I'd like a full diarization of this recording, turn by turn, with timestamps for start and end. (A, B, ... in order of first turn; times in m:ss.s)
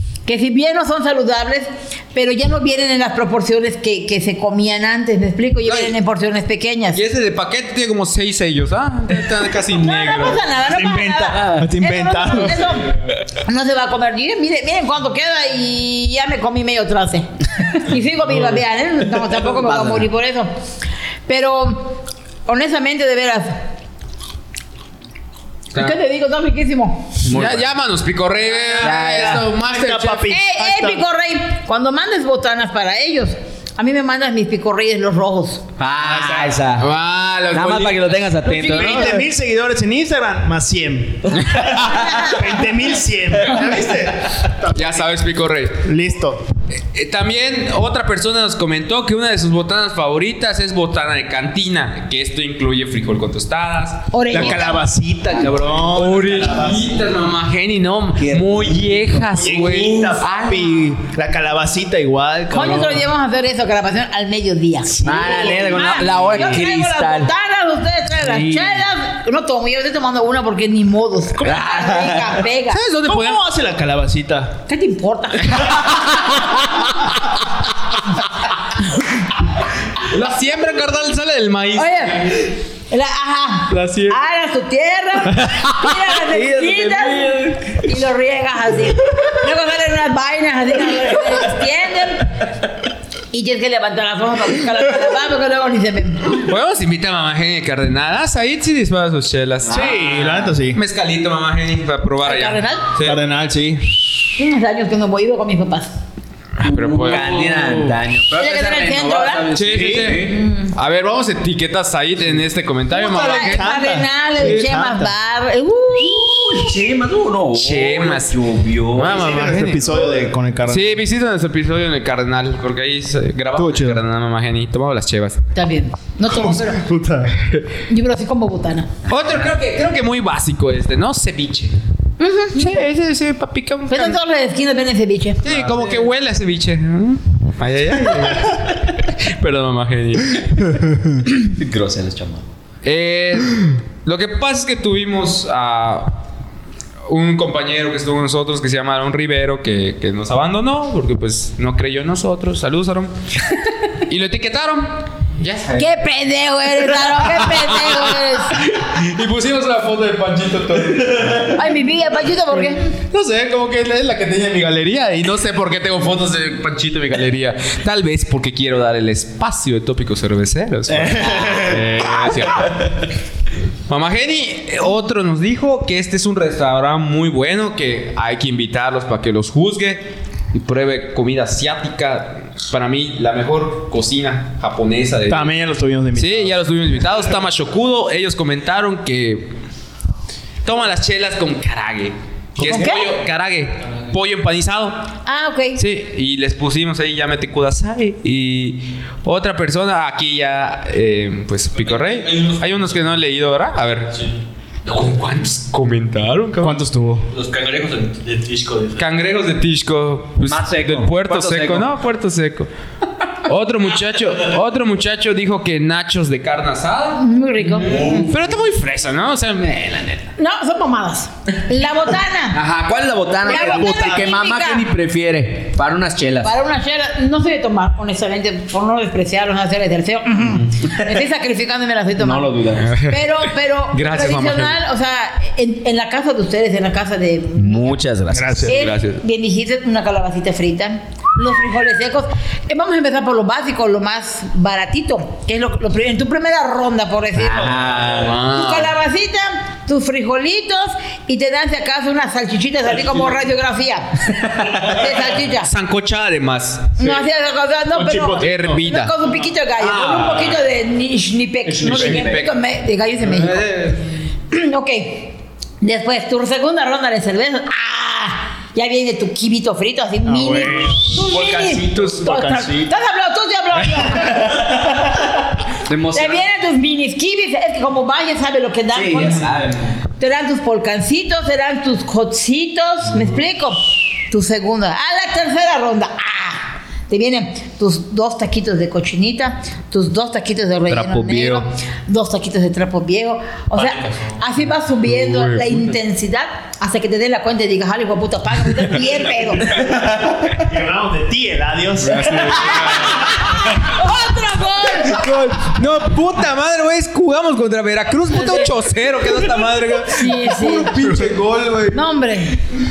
0:00.3-0:07.0 A
0:05.7-0:05.9 B
0:06.9-0:10.4 B
0:09.8-0:12.9 A
0:10.7-0:12.7 C
0:13.4-0:20.5 A
0:19.5-0:20.1 D
0:21.3-0:23.6 A
0:25.8-0:27.2 A
0:27.2-0:27.6 D
0:27.3-0:30.4 B
0:28.7-0:31.0 C
0:28.8-0:29.5 D
0:30.3-0:35.6 A
0:35.8-0:36.9 D
0:36.0-0:36.6 C
0:36.8-0:38.3 B
0:37.5-0:39.2 D
0:38.4-0:45.0 C
0:41.6-0:41.9 B
0:41.7-0:42.4 A
0:44.7-0:45.9 B
0:45.8-0:46.5 C
0:46.7-0:54.5 B
0:54.1-0:54.8 A
0:54.3-0:56.9 C
0:55.7-1:00.6 B
0:59.3-1:03.1 C
1:02.5-1:12.8 A
1:04.9-1:06.4 C
1:05.0-1:07.3 D
1:08.2-1:08.8 D
1:11.4-1:12.4 D
1:12.7-1:13.4 B
1:13.1-1:14.6 C
1:14.7-1:15.9 A
1:15.5-1:16.6 B
1:20.0-1:22.4 B
1:21.8-1:32.4 A
1:23.7-1:24.2 B
1:26.2-1:27.8 D
1:33.3-1:36.4 A
1:36.3-1:43.2 B
1:39.7-1:40.8 C
1:42.2-1:42.9 A
1:43.0-1:44.0 C
1:44.4-1:46.0 A
1:46.6-1:47.5 B
1:46.8-1:50.4 D
1:46.9-1:48.0 C
1:48.4-1:49.5 A
1:49.5-1:53.8 B
1:49.7-1:50.2 C
1:50.3-1:50.7 A
1:52.9-1:56.7 A
1:53.0-1:55.1 C
1:56.2-1:59.2 D
1:57.5-2:05.4 B
1:59.0-2:00.9 C
2:03.6-2:04.0 C
2:05.6-2:06.8 A
2:06.3-2:07.4 C
2:07.9-2:08.9 A
2:09.1-2:11.8 B
2:12.2-2:12.8 A
2:12.5-2:14.2 B
2:13.9-2:15.4 A
2:15.4-2:20.9 B
2:15.5-2:15.8 C
2:21.4-2:22.4 D
2:22.8-2:26.2 B
2:27.1-2:33.1 B
2:34.1-2:35.9 B
2:35.8-2:38.6 A
2:37.0-2:41.8 B
2:41.5-2:42.9 A
2:43.1-2:53.1 B
2:50.9-2:51.9 C
2:53.9-3:05.5 B
3:05.3-3:06.5 C
3:06.2-3:09.6 B
3:10.6-3:15.1 B
3:12.6-3:13.1 A
3:15.3-3:15.8 A
3:15.8-3:24.1 B
3:21.8-3:23.0 E
3:24.8-3:26.8 B
3:26.6-3:27.3 C
3:27.3-3:29.1 E
3:29.0-3:32.7 B
3:30.5-3:31.9 D
3:33.4-3:37.2 B
3:37.2-3:38.3 A
3:37.8-3:40.3 B
3:37.9-3:38.3 E
3:40.4-3:42.6 A
3:42.5-3:42.9 B
3:42.6-3:46.5 D
3:43.4-3:44.3 C
3:43.5-3:44.9 A
3:46.4-3:58.0 A
3:52.2-3:53.0 D
3:52.8-3:54.8 B
3:57.6-3:58.6 D
3:58.3-3:58.8 C
3:58.6-4:07.8 A
3:58.7-3:59.2 B
4:07.4-4:08.4 D
4:08.1-4:09.0 B
4:08.5-4:15.7 A
4:14.4-4:14.8 D
4:15.6-4:17.1 B
4:17.0-4:23.6 A
4:17.9-4:18.8 C
4:18.4-4:19.2 B
4:20.0-4:20.4 B
4:21.7-4:22.5 B
4:21.8-4:22.3 D
4:23.2-4:24.1 B
4:24.5-4:34.5 A
4:30.3-4:32.9 C
4:35.8-4:36.4 D
4:36.1-4:39.5 A
4:38.9-4:39.8 D
4:40.2-4:59.9 A
4:50.9-4:51.7 B
4:53.8-4:54.4 E
4:55.1-4:55.8 B
5:00.5-5:03.2 C
5:02.0-5:03.2 B
5:02.6-5:05.3 A
5:05.0-5:12.0 B
5:08.4-5:08.7 A
5:10.1-5:11.0 A
5:11.0-5:11.4 C
5:11.9-5:12.6 A